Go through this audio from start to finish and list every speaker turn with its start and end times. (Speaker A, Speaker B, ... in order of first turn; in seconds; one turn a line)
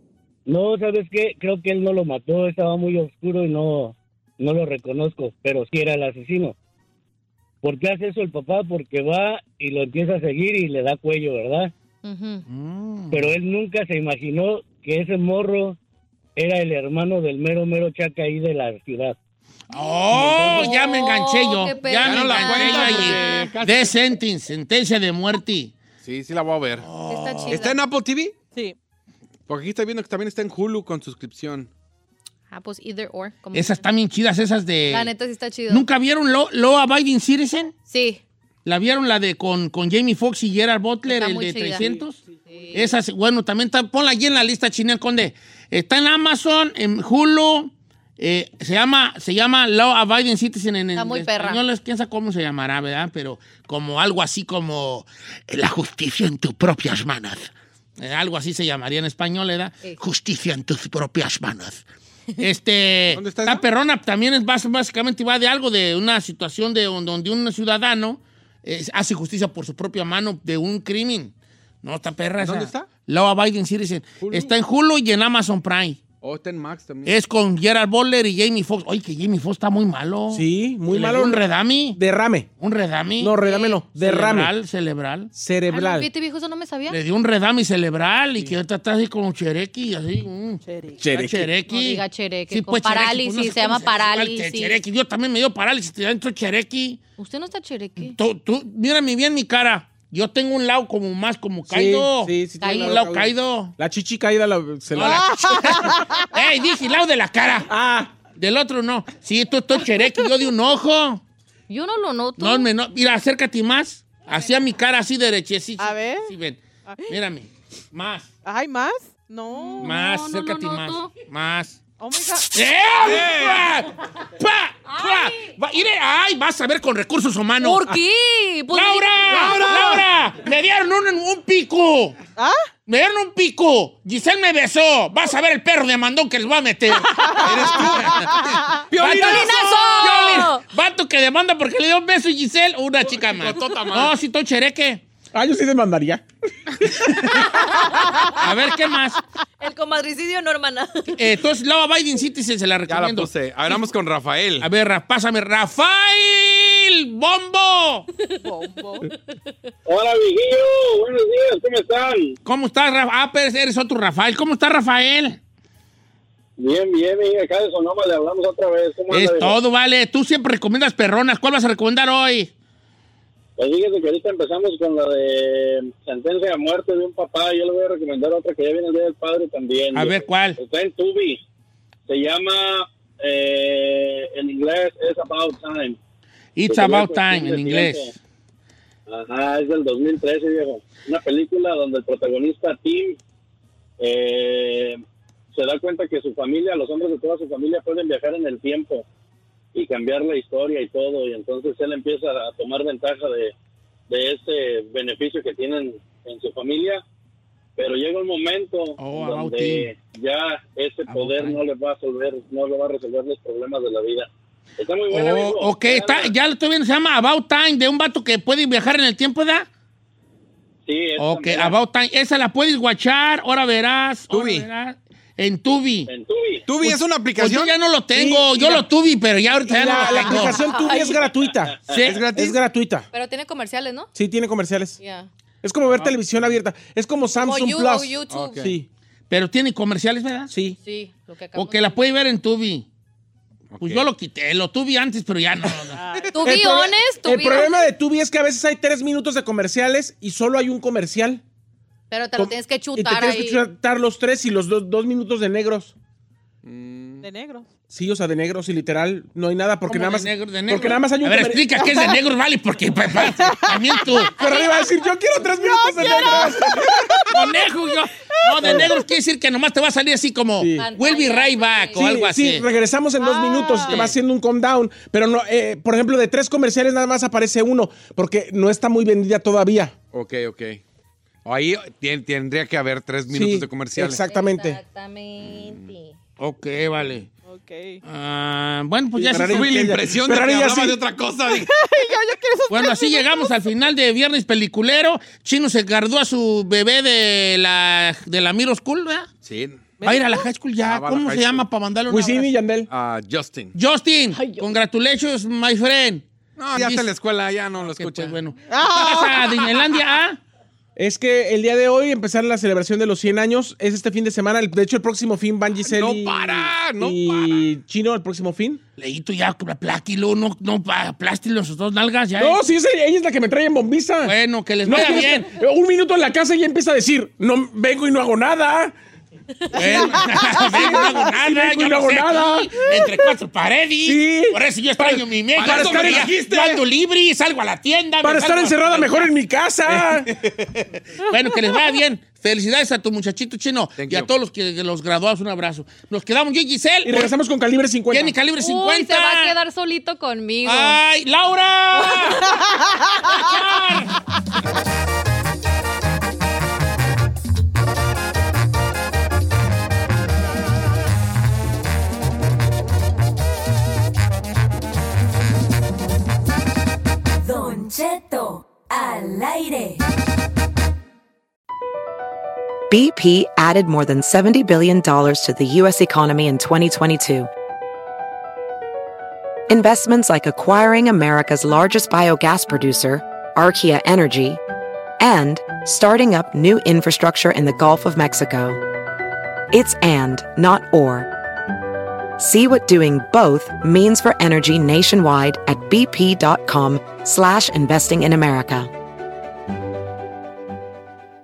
Speaker A: 0.5-6.5
Speaker A: 7.6-11.7
Speaker B: 12.0-12.4
Speaker C: 12.5-13.3
Speaker A: 13.1-15.8
Speaker A: 16.4-19.1
Speaker C: 19.7-25.7
Speaker A: 20.1-20.6
Speaker B: 20.4-23.5
Speaker D: 22.0-23.9
Speaker D: 26.0-26.9
Speaker C: 26.8-27.7
Speaker B: 27.1-27.8
Speaker D: 27.5-28.4
Speaker D: 29.5-31.7
Speaker B: 32.5-33.8
Speaker C: 33.5-35.1
Speaker B: 34.9-35.8
Speaker C: 35.7-37.7
Speaker B: 37.9-38.2
Speaker C: 38.6-42.2
Speaker B: 41.1-41.9
Speaker B: 42.5-42.8
Speaker C: 42.7-61.8
Speaker B: 51.0-51.6
Speaker C: 62.4-71.3
Speaker D: 63.1-63.6
Speaker C: 71.8-76.0
Speaker D: 72.4-72.9
Speaker D: 74.2-74.5
Speaker D: 76.2-77.2
Speaker C: 77.0-82.0
Speaker E: 80.3-81.4
Speaker E: 82.0-82.5
Speaker C: 82.6-83.3
Speaker E: 83.2-84.5
Speaker B: 83.4-83.8
Speaker C: 83.9-85.3
Speaker E: 85.3-86.1
Speaker B: 85.7-87.0
Speaker C: 86.9-97.0
Speaker F: 90.6-91.0
Speaker D: 91.1-91.4
Speaker B: 91.7-94.8
Speaker B: 97.2-98.2
Speaker C: 98.0-103.7
Speaker E: 101.7-105.6
Speaker B: 102.6-103.0
Speaker C: 104.9-107.7
Speaker F: 105.0-106.2
Speaker E: 107.7-108.1
Speaker C: 108.3-111.2
Speaker B: 111.7-112.7
Speaker C: 112.4-118.3
Speaker F: 115.8-116.3
Speaker F: 116.8-117.2
Speaker F: 118.4-120.0
Speaker B: 119.5-121.1
Speaker C: 119.8-121.8
Speaker F: 122.0-122.5
Speaker C: 122.5-128.0
Speaker D: 123.0-123.7
Speaker B: 127.6-129.7
Speaker C: 128.7-132.2
Speaker D: 129.3-130.1
Speaker F: 132.4-132.7
Speaker C: 132.9-138.4
Speaker F: 137.1-137.6
Speaker D: 137.4-138.3
Speaker F: 138.2-138.6
Speaker D: 138.9-139.7
Speaker C: 139.0-145.0
Speaker B: 139.0-140.6
Speaker D: 143.1-144.1
Speaker E: 145.3-146.2
Speaker E: 146.8-147.4
Speaker B: 147.5-148.4
Speaker C: 148.4-149.2
Speaker B: 149.6-151.2
Speaker C: 151.2-153.3
Speaker D: 152.9-154.7
Speaker C: 154.6-158.1
Speaker F: 158.4-159.1
Speaker G: 159.8-162.3
Speaker C: 162.4-165.4
Speaker G: 166.6-169.6
Speaker C: 169.1-172.5
Speaker G: 173.6-181.4
Speaker C: 179.9-180.6
Speaker G: 182.1-186.0
Speaker C: 186.6-188.1
Speaker G: 186.7-188.1
Speaker G: 189.1-193.2
Speaker G: 194.0-195.0
Speaker G: 195.5-199.0
Speaker G: 199.7-203.5
Speaker G: 204.1-207.0
Speaker G: 207.8-216.3
Speaker C: 209.0-209.9
Speaker C: 211.1-211.6
Speaker C: 215.1-219.7
Speaker G: 220.8-221.8
Speaker C: 221.2-226.1
Speaker D: 224.3-224.7
Speaker G: 226.1-226.6
Speaker D: 226.7-227.7
Speaker C: 227.3-230.6
Speaker E: 228.1-228.8
Speaker E: 229.7-231.8
Speaker B: 229.9-231.3
Speaker C: 231.9-232.2
Speaker D: 232.0-232.6
Speaker E: 232.3-233.1
Speaker B: 233.1-234.1
Speaker E: 234.1-235.0
Speaker B: 235.0-235.3
Speaker E: 235.6-238.9
Speaker D: 235.9-236.5
Speaker B: 237.4-238.7
Speaker D: 238.3-238.8
Speaker C: 239.3-240.5
Speaker E: 240.5-240.8
Speaker B: 240.8-242.0
Speaker C: 241.5-242.8
Speaker D: 243.7-244.1
Speaker C: 243.8-246.0
Speaker F: 245.9-246.5
Speaker B: 246.3-247.8
Speaker E: 246.4-251.4
Speaker B: 252.1-253.6
Speaker E: 252.4-255.9
Speaker D: 256.6-257.2
Speaker F: 257.2-257.6
Speaker E: 257.9-261.8
Speaker C: 259.9-264.4
Speaker F: 263.2-264.3
Speaker E: 264.4-267.1
Speaker B: 264.4-264.9
Speaker F: 265.6-267.5
Speaker C: 267.3-272.6
Speaker F: 268.4-268.9
Speaker E: 270.6-270.9
Speaker B: 270.8-272.2
Speaker E: 271.9-279.9
Speaker F: 273.2-274.1
Speaker C: 273.9-274.1
Speaker D: 280.1-280.8
Speaker D: 281.4-284.2
Speaker E: 283.3-284.8
Speaker B: 284.2-286.1
Speaker D: 285.4-285.8
Speaker C: 286.4-287.3
Speaker F: 287.4-288.0
Speaker C: 288.0-289.7
Speaker E: 289.1-291.0
Speaker D: 289.4-291.7
Speaker F: 291.5-293.5
Speaker C: 292.7-299.3
Speaker D: 299.4-299.9
Speaker F: 300.0-300.4
Speaker C: 300.0-302.5
Speaker D: 300.8-301.6
Speaker E: 302.1-302.9
Speaker D: 302.9-303.7
Speaker C: 303.7-307.1
Speaker D: 306.6-308.4
Speaker C: 307.8-310.4
Speaker F: 308.7-309.8
Speaker E: 310.9-318.8
Speaker D: 315.8-317.6
Speaker C: 319.0-322.6
Speaker E: 322.4-324.3
Speaker C: 324.2-325.5
Speaker E: 324.8-328.9
Speaker C: 329.7-339.3
Speaker F: 329.8-330.9
Speaker E: 329.8-330.1
Speaker E: 330.6-333.2
Speaker E: 334.0-336.8
Speaker D: 335.6-336.7
Speaker E: 338.2-340.3
Speaker D: 339.9-340.2
Speaker C: 341.3-347.3
Speaker D: 344.0-344.3
Speaker E: 347.0-348.4
Speaker C: 348.1-349.5
Speaker B: 348.6-351.0
Speaker C: 350.6-352.6
Speaker C: 353.2-354.1
Speaker H: 367.4-370.0
Speaker I: 372.9-377.5
Speaker I: 379.7-384.6
Speaker I: 385.2-388.8
Speaker I: 389.7-391.3
Speaker I: 392.4-398.9